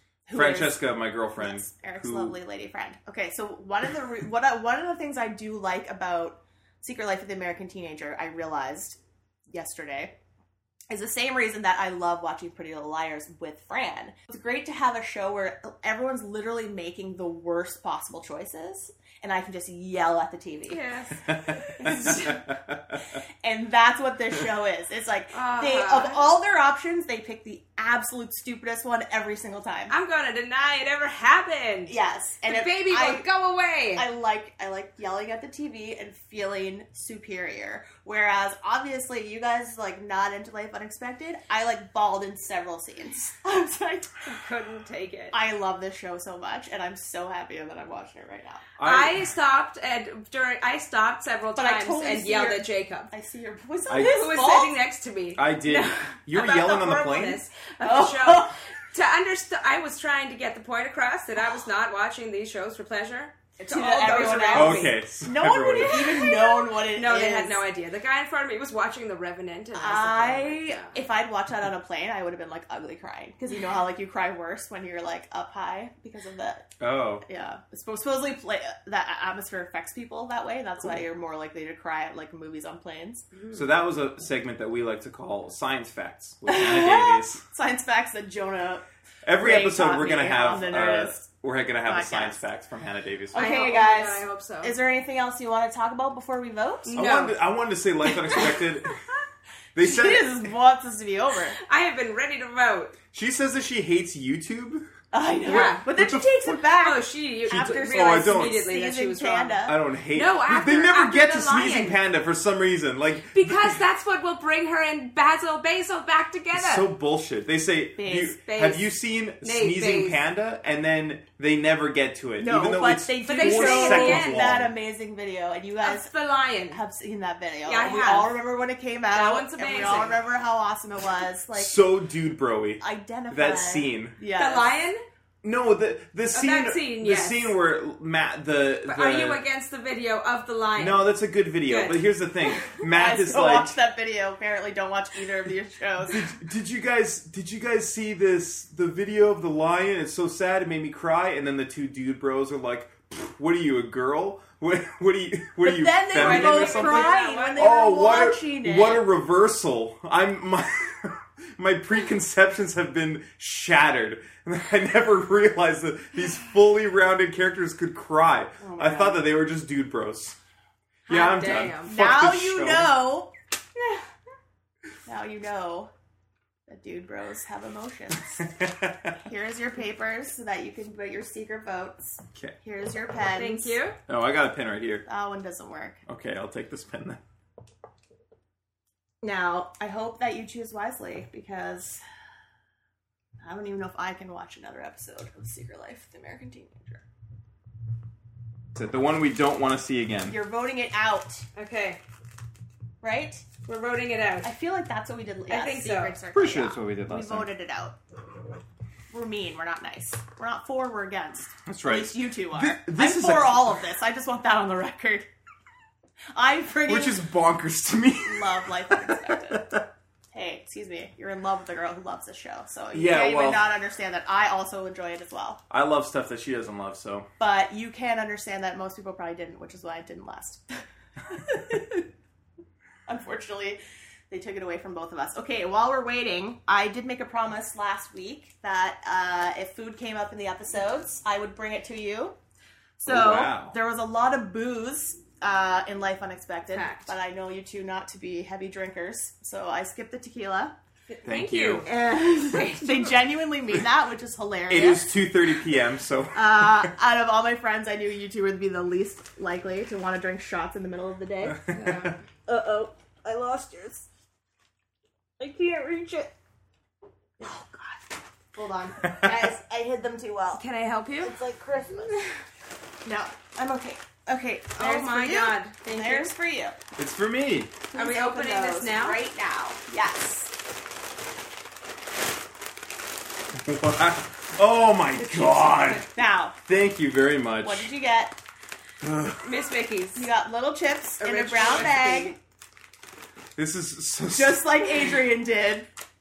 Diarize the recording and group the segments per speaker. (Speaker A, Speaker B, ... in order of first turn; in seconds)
Speaker A: 0.3-9.0, 9.5-10.1, 10.9-20.8, 21.8-22.3, 23.4-29.9, 31.9-33.3, 34.0-44.2, 45.3-48.7, 51.6-54.8, 57.8-58.6, 63.6-67.6, 69.8-76.7, 77.2-83.3, 86.5-88.9, 89.4-91.2, 91.8-92.4, 93.3-96.9, 98.2-98.7, 99.8-101.6, 105.1-109.8, 118.0-118.4, 122.4-126.1, 126.7-131.8, 132.8-134.8, 142.9-146.2, 155.6-159.1, 168.6-169.3, 171.9-173.3, 175.1-175.9, 176.7-178.5, 179.2-183.8, 185.1-186.0, 189.2-192.0, 193.4-197.0, 200.3-201.4, 203.0-203.4, 204.4-208.0, 209.1-215.3, 216.3-217.2, 218.2-219.8, 220.3-225.6, 227.4-230.6, 231.2-232.1, 233.1-242.4, 243.0-250.8, 251.8-255.1, 256.3-261.6, 262.5-264.1, 265.4-266.3, 267.4-270.6, 271.2-272.2, 273.1-276.8, 277.9-280.5, 285.2-286.6, 287.6-288.4, 290.2-292.4, 294.3-295.9
Speaker B: 0.3-2.4, 48.8-49.3, 53.9-54.3, 55.4-57.4, 64.5-66.3, 76.8-77.2, 83.5-87.4, 89.2-93.5, 97.0-98.9, 99.8-100.5, 103.1-104.9, 105.4-106.6, 107.5-108.6, 109.7-113.8, 116.5-124.7, 131.5-134.2, 135.4-139.4, 140.8-143.8, 146.1-170.4, 171.1-173.0, 178.5-179.1, 184.1-185.1, 186.1-187.2, 198.8-200.4, 206.3-207.5, 211.7-213.8, 216.9-219.8, 222.9-223.7, 225.7-227.3, 243.1-243.8, 251.3-251.9, 254.7-256.9, 261.7-262.1, 277.0-277.8, 283.6-286.1, 286.7-287.9, 289.0-289.4, 293.6-295.2
Speaker C: 20.7-22.4, 25.3-26.3, 29.9-31.9, 32.5-34.1, 44.2-45.4, 48.8-53.1, 54.0-65.0, 66.1-71.0, 83.4-83.6, 93.3-94.7, 96.8-97.4, 101.6-103.0, 105.5-105.9, 106.8-109.6, 110.1-112.0, 113.3-116.9, 118.4-120.2, 123.2-124.6, 125.8-126.8, 127.7-128.3, 129.1-130.2, 134.3-135.0, 136.3-137.6, 138.9-141.1, 141.7-142.0, 156.2-157.7, 171.1-171.9, 183.3-184.0, 201.6-202.0, 203.7-204.5, 205.5-206.2, 246.7-247.1, 251.1-251.9, 252.5-253.2, 261.7-262.2, 270.5-271.3, 274.8-276.3, 277.9-279.2, 289.4-290.3, 291.2-292.4